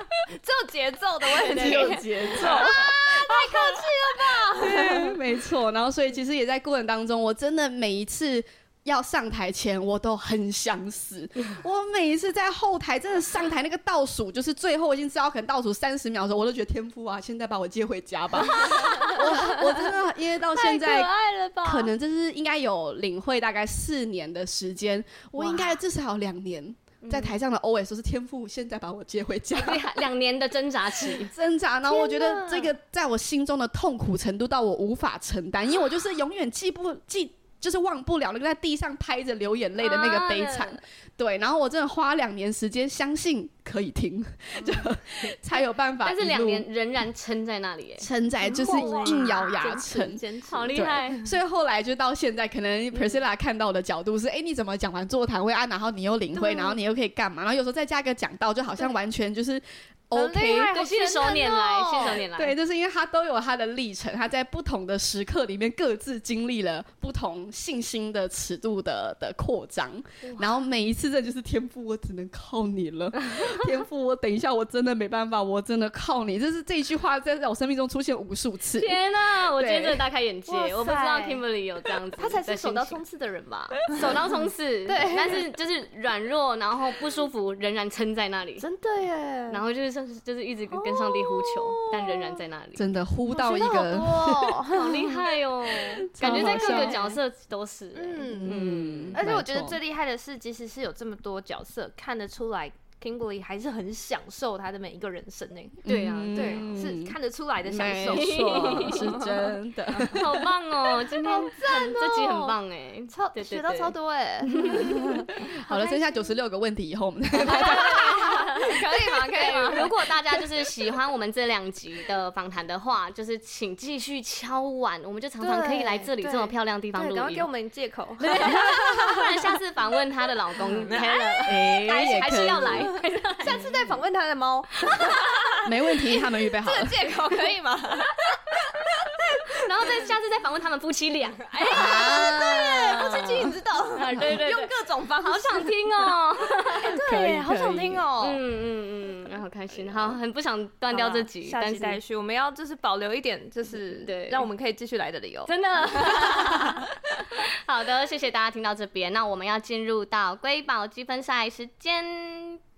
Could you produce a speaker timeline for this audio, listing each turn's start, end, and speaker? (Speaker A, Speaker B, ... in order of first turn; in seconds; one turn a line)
Speaker A: 0.3-5.2
Speaker B: 1.4-3.7
Speaker C: 1.4-3.8
Speaker B: 4.5-29.9
Speaker A: 18.5-19.9
Speaker A: 20.5-21.9
Speaker A: 25.4-25.7
Speaker C: 27.0-27.4
Speaker C: 29.5-31.3
Speaker B: 31.1-46.6
Speaker A: 31.9-32.7
Speaker C: 39.8-40.8
Speaker C: 46.0-48.1
Speaker B: 48.0-50.2
Speaker A: 48.4-51.1
Speaker C: 48.6-49.5
Speaker C: 50.5-51.2
Speaker B: 50.7-60.8
Speaker A: 56.3-56.8
Speaker A: 60.1-62.2
Speaker C: 60.7-62.5
Speaker B: 62.0-80.0
Speaker C: 70.2-70.5
Speaker C: 73.2-73.6
Speaker C: 78.8-83.0
Speaker A: 80.5-81.4
Speaker A: 82.2-84.2
Speaker C: 83.9-88.6
Speaker A: 84.8-85.5
Speaker A: 88.6-89.6
Speaker C: 89.5-92.8
Speaker A: 90.7-92.4
Speaker B: 92.8-94.6
Speaker A: 93.3-95.3
Speaker C: 94.7-99.2
Speaker B: 96.1-97.0
Speaker A: 96.2-97.2
Speaker A: 97.9-98.6
Speaker B: 98.3-99.8
Speaker A: 99.1-105.8
Speaker B: 105.8-110.4
Speaker C: 105.8-106.7
Speaker A: 106.3-110.2
Speaker C: 108.0-109.0
Speaker C: 110.0-113.9
Speaker A: 111.2-112.5
Speaker A: 113.1-115.3
Speaker C: 114.5-116.3
Speaker B: 114.6-118.8
Speaker A: 117.3-119.9
Speaker C: 117.4-127.5
Speaker A: 125.4-129.6
Speaker C: 128.2-133.8
Speaker A: 130.6-140.1
Speaker B: 131.4-132.9
Speaker C: 134.9-135.5
Speaker B: 135.6-137.0
Speaker C: 139.2-146.9
Speaker A: 141.5-145.8
Speaker B: 141.7-142.5
Speaker A: 146.7-148.4
Speaker B: 146.8-148.0
Speaker C: 148.2-152.0
Speaker A: 150.9-156.8
Speaker C: 153.9-154.5
Speaker C: 155.5-162.6